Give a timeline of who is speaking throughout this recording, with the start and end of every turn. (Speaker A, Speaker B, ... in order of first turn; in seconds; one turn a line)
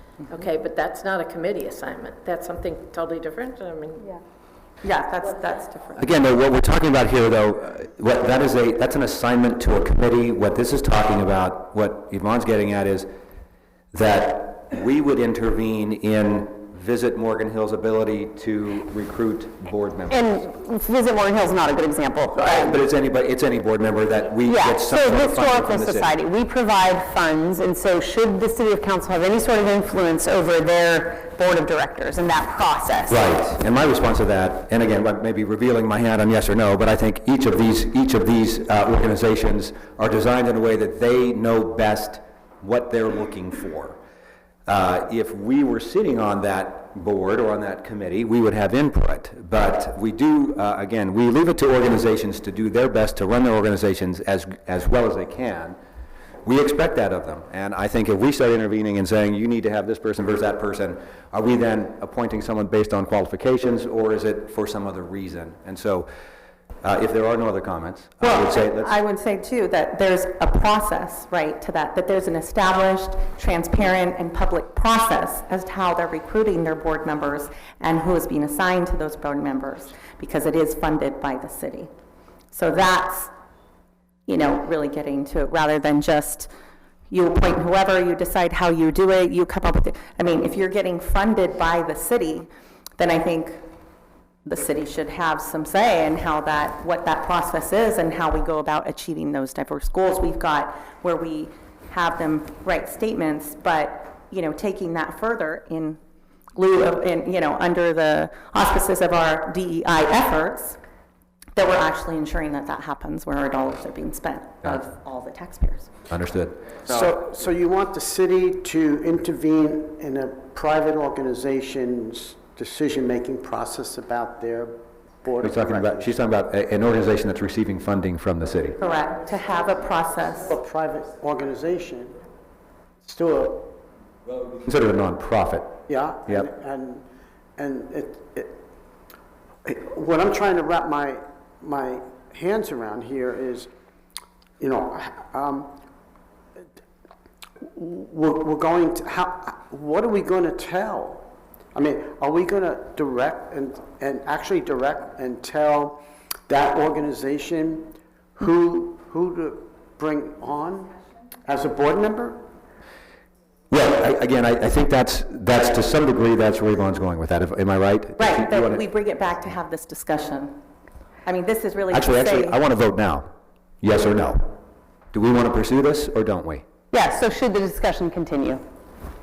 Speaker A: 0.3-4.2
Speaker B: 4.8-6.1
Speaker C: 6.0-13.1
Speaker C: 13.9-20.3
Speaker D: 20.1-22.7
Speaker C: 22.4-26.1
Speaker D: 24.4-33.2
Speaker C: 33.1-44.0
Speaker C: 44.7-55.8
Speaker C: 56.4-66.1
Speaker C: 66.8-69.0
Speaker B: 68.2-81.9
Speaker B: 82.5-83.3
Speaker B: 84.3-86.5
Speaker B: 87.1-93.7
Speaker B: 94.5-106.0
Speaker B: 106.5-110.8
Speaker B: 111.6-115.9
Speaker C: 116.1-116.7
Speaker E: 116.9-126.1
Speaker C: 125.4-128.8
Speaker B: 128.8-130.6
Speaker E: 130.5-132.2
Speaker E: 133.0-133.8
Speaker C: 134.4-135.8
Speaker E: 135.9-137.0
Speaker E: 137.6-138.6
Speaker E: 139.7-143.7
Speaker E: 144.6-145.7
Speaker E: 147.6-162.5
Speaker C: 163.7-168.8
Speaker B: 168.2-170.6
Speaker B: 171.2-172.6
Speaker C: 171.9-173.3
Speaker C: 173.8-174.6
Speaker C: 175.1-176.6
Speaker D: 176.9-178.6